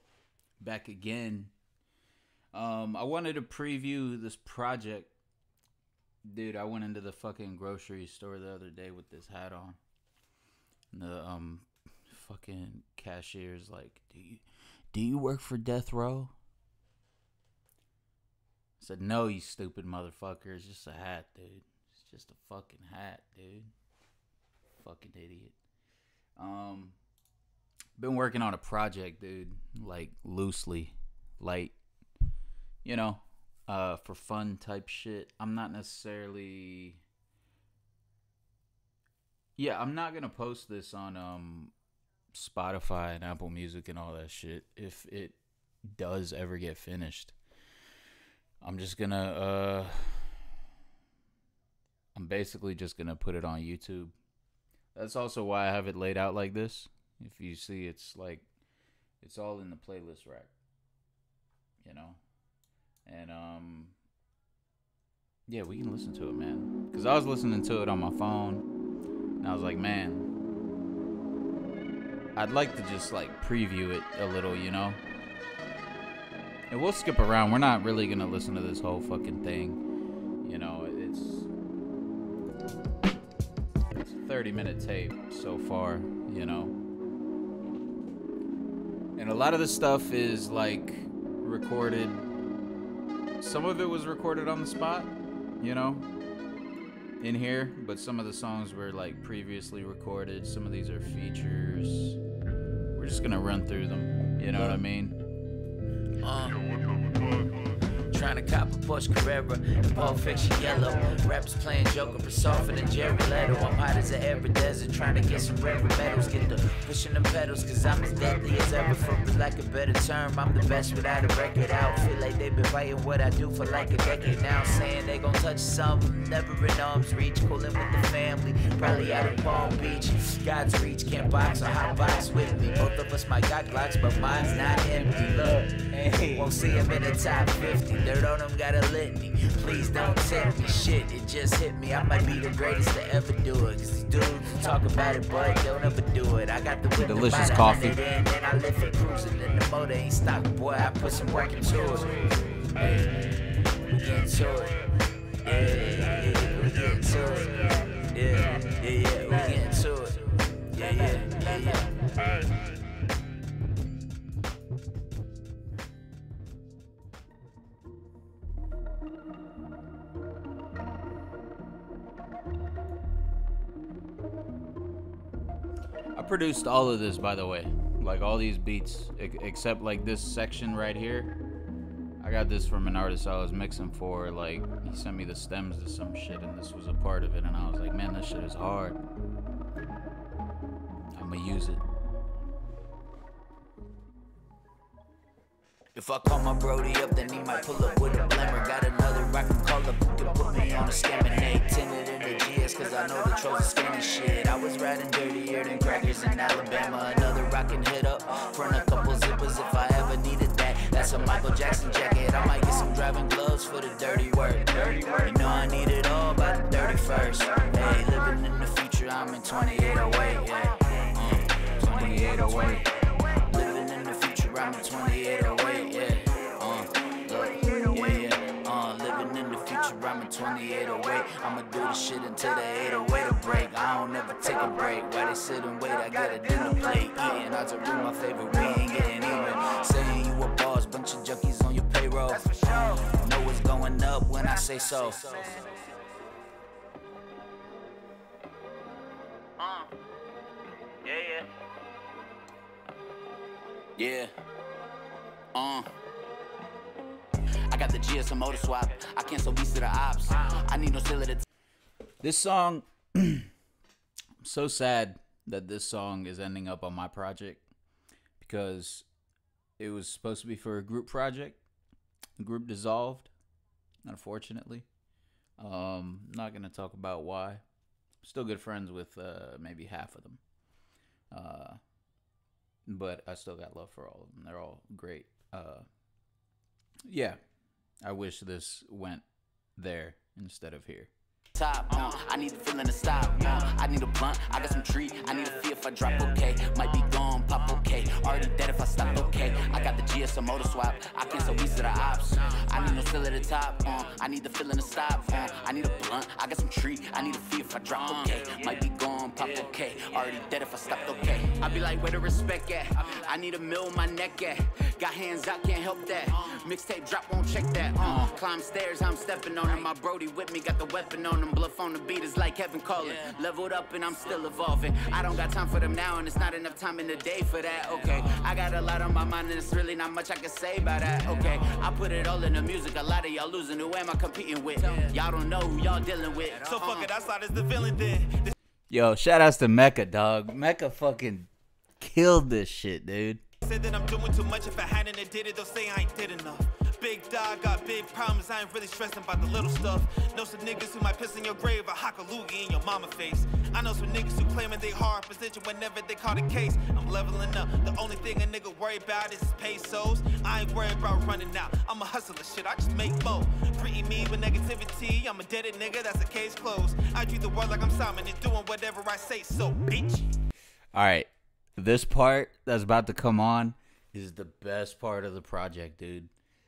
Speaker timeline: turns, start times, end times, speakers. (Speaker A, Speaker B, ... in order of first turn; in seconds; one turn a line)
Speaker A: 0.6-1.5
Speaker A: 2.5-5.1
Speaker A: 6.3-9.8
Speaker A: 10.9-16.4
Speaker A: 18.8-23.7
Speaker A: 24.7-25.6
Speaker A: 26.4-27.0
Speaker A: 28.0-31.8
Speaker A: 32.8-37.0
Speaker A: 39.6-41.7
Speaker A: 42.3-47.4
Speaker A: 48.6-50.2
Speaker A: 52.1-54.1
Speaker A: 55.0-58.5
Speaker A: 59.2-60.5
Speaker A: 61.8-62.2
Speaker A: 63.1-64.0
Speaker A: 65.5-68.6
Speaker A: 69.4-70.3
Speaker A: 72.4-75.0
Speaker A: 76.7-79.8
Speaker A: 80.4-81.5
Speaker A: 83.9-86.8
Speaker A: 89.2-92.3
Speaker A: 93.4-96.1
Speaker A: 97.2-102.2
Speaker A: 103.0-105.2
Speaker B: 106.2-107.0
Speaker B: 108.1-135.7
Speaker A: 135.3-136.5
Speaker B: 136.3-152.1
Speaker A: 147.0-148.0
Speaker B: 152.8-153.1
Speaker B: 153.9-154.7
Speaker B: 155.4-162.1
Speaker A: 176.2-181.3
Speaker A: 182.2-189.0
Speaker A: 191.2-191.8
Speaker B: 195.9-222.8
Speaker B: 223.4-245.6
Speaker B: 249.6-249.9
Speaker B: 251.1-251.5
Speaker B: 254.0-254.3
Speaker B: 255.6-255.9
Speaker B: 257.7-261.4
Speaker A: 262.2-263.5
Speaker A: 264.4-267.7
Speaker A: 268.4-269.1
Speaker A: 269.8-271.6
Speaker A: 272.4-273.3
Speaker A: 274.1-274.9
Speaker A: 275.6-277.6
Speaker A: 278.2-280.4
Speaker A: 281.3-281.8
Speaker A: 282.9-285.9
Speaker A: 287.1-287.4
Speaker A: 288.0-289.2
Speaker A: 289.8-291.1
Speaker B: 291.6-337.1
Speaker C: 336.5-338.5
Speaker A: 338.9-341.5
Speaker A: 342.0-343.4
Speaker C: 343.6-370.3
Speaker A: 370.9-376.3